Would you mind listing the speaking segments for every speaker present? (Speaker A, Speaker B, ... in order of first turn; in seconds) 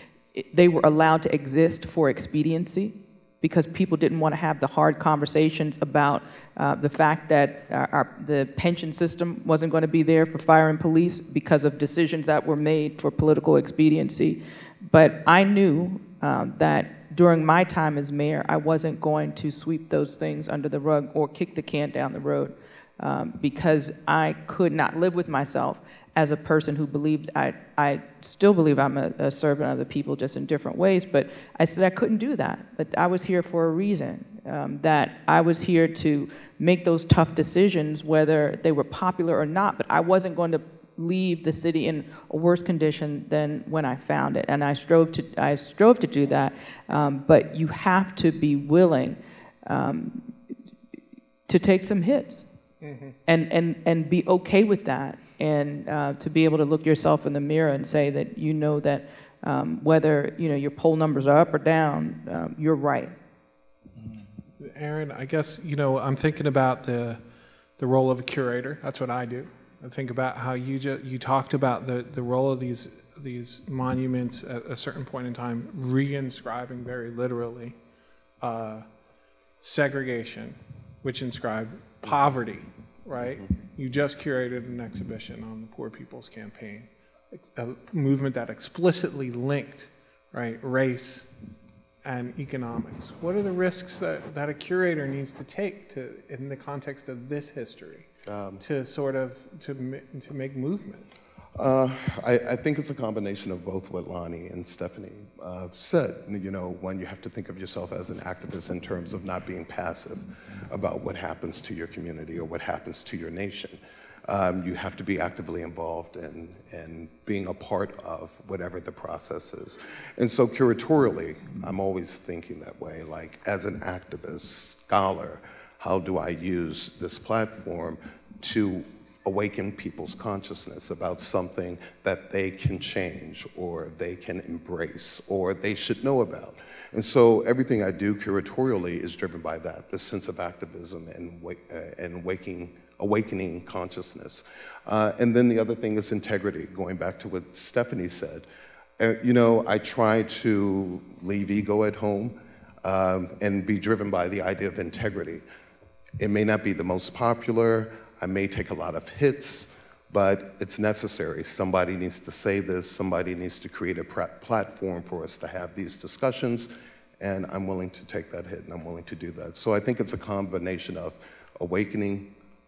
Speaker A: 0.3-50.3, 51.5-52.4, 53.2-63.1
Speaker B: 52.8-53.1, 64.6-67.2, 67.8-77.8, 78.4-78.8, 79.6-91.3, 92.0-98.1, 98.6-101.1
Speaker C: 98.3-98.6, 101.6-148.4, 149.0-155.4, 156.2-166.7, 167.2-172.3